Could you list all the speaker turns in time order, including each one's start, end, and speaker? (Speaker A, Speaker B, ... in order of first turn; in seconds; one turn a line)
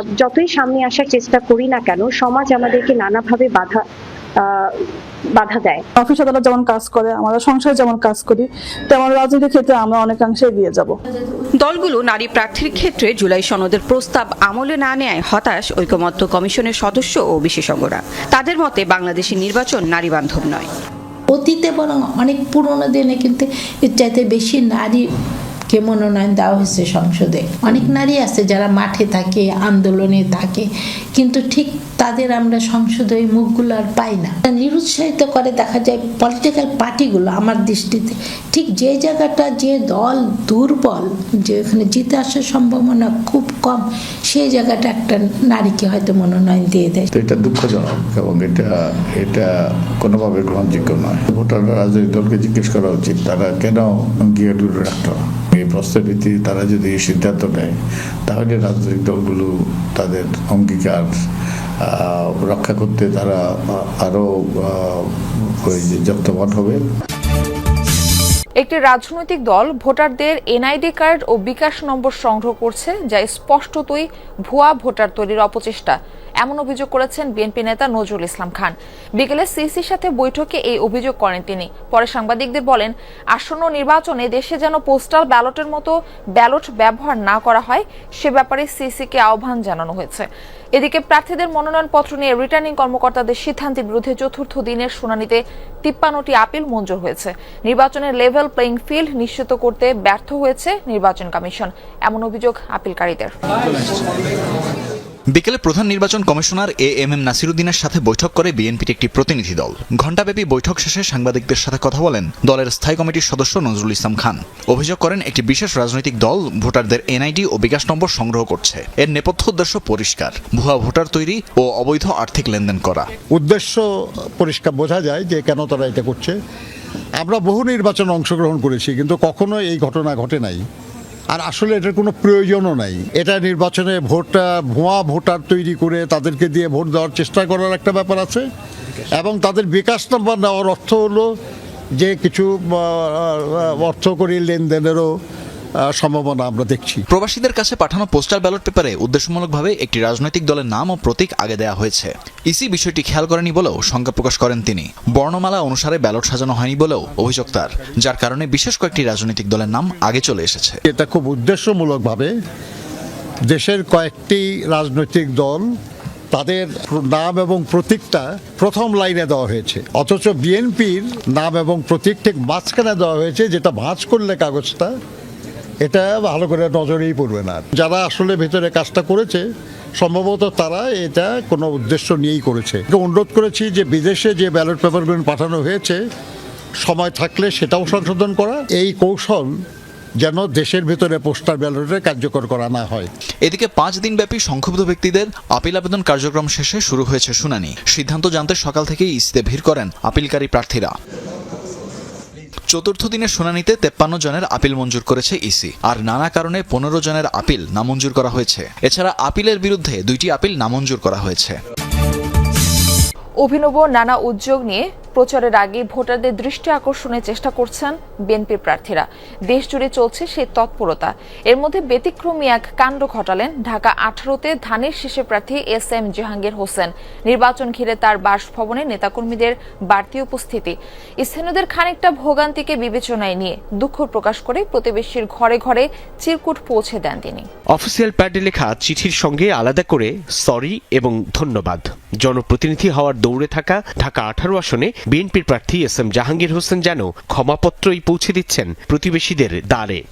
Speaker A: 0.2-3.8
Speaker A: 5.3-5.8
Speaker B: 6.0-10.9
Speaker C: 11.6-20.7
Speaker D: 21.3-25.0
Speaker D: 25.7-47.1
Speaker E: 47.1-49.5
Speaker E: 50.0-57.7
Speaker E: 58.3-61.1
Speaker E: 62.0-65.0
Speaker E: 65.6-66.8
Speaker F: 68.6-103.4
Speaker G: 105.4-123.0
Speaker H: 123.3-123.8
Speaker H: 124.4-126.3
Speaker H: 127.2-130.6
Speaker H: 131.3-138.4
Speaker H: 139.2-141.2
Speaker H: 142.0-145.1
Speaker H: 146.0-147.1
Speaker G: 147.1-160.8
Speaker H: 160.9-162.3
Speaker H: 163.5-165.6
Speaker H: 166.3-174.9
Speaker H: 175.8-179.4
Speaker H: 180.0-186.0
Speaker H: 186.8-189.5
Speaker H: 190.2-193.1
Speaker G: 193.5-200.9
Speaker G: 202.7-211.6
Speaker F: 213.4-237.4
Speaker I: 237.7-250.0